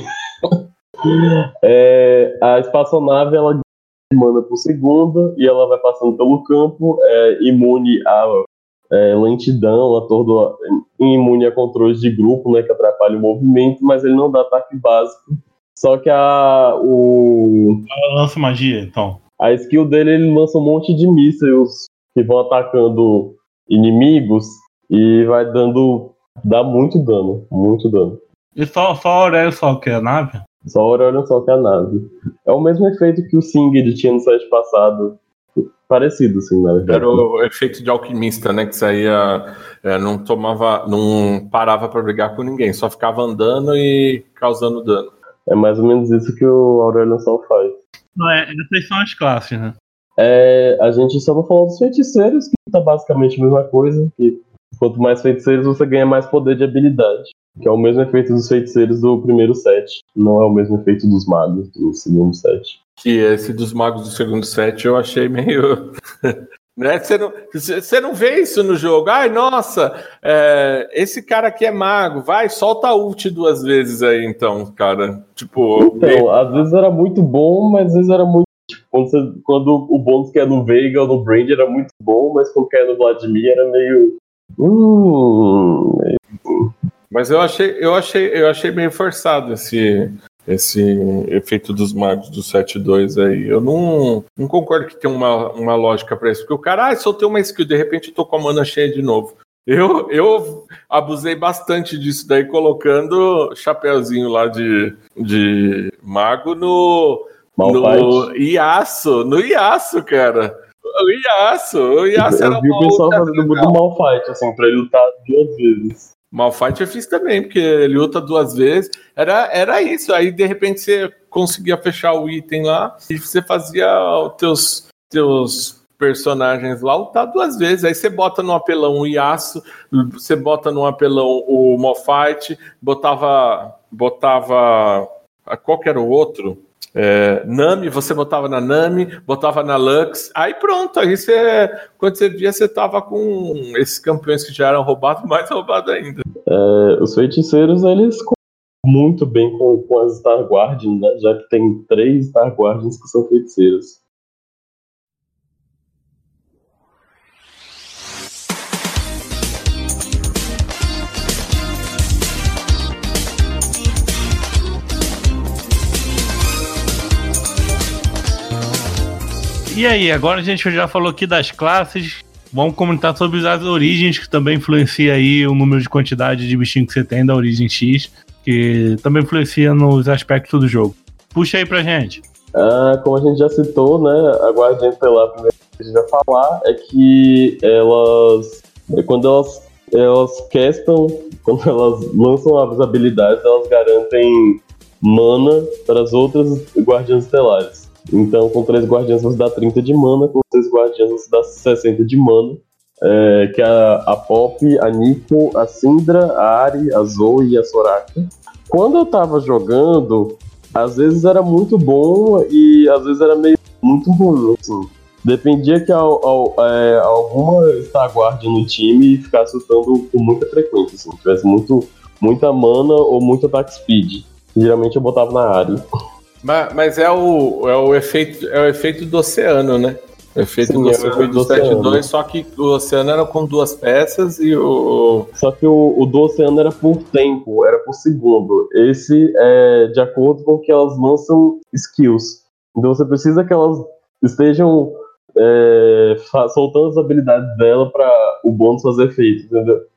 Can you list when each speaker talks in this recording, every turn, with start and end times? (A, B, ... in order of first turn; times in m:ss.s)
0:00.4-0:17.9 A
0:17.9-0:19.2 B
0:19.4-0:28.2 A
0:28.6-0:30.4 B
0:30.7-0:37.2 A
0:36.9-0:45.1 C
0:45.5-0:47.8 A
0:48.2-0:49.8 B
0:50.2-1:02.8 A
1:03.0-1:16.6 C
1:15.8-1:26.7 A
1:27.1-1:53.8 C
1:47.6-1:48.3 A
1:52.2-1:56.1 A
1:56.3-2:26.2 C
2:26.5-2:34.0 A
2:49.7-3:02.2 B
3:02.5-3:45.8 A
3:46.4-3:55.3 C
3:50.6-3:52.0 A
3:55.4-4:09.8 A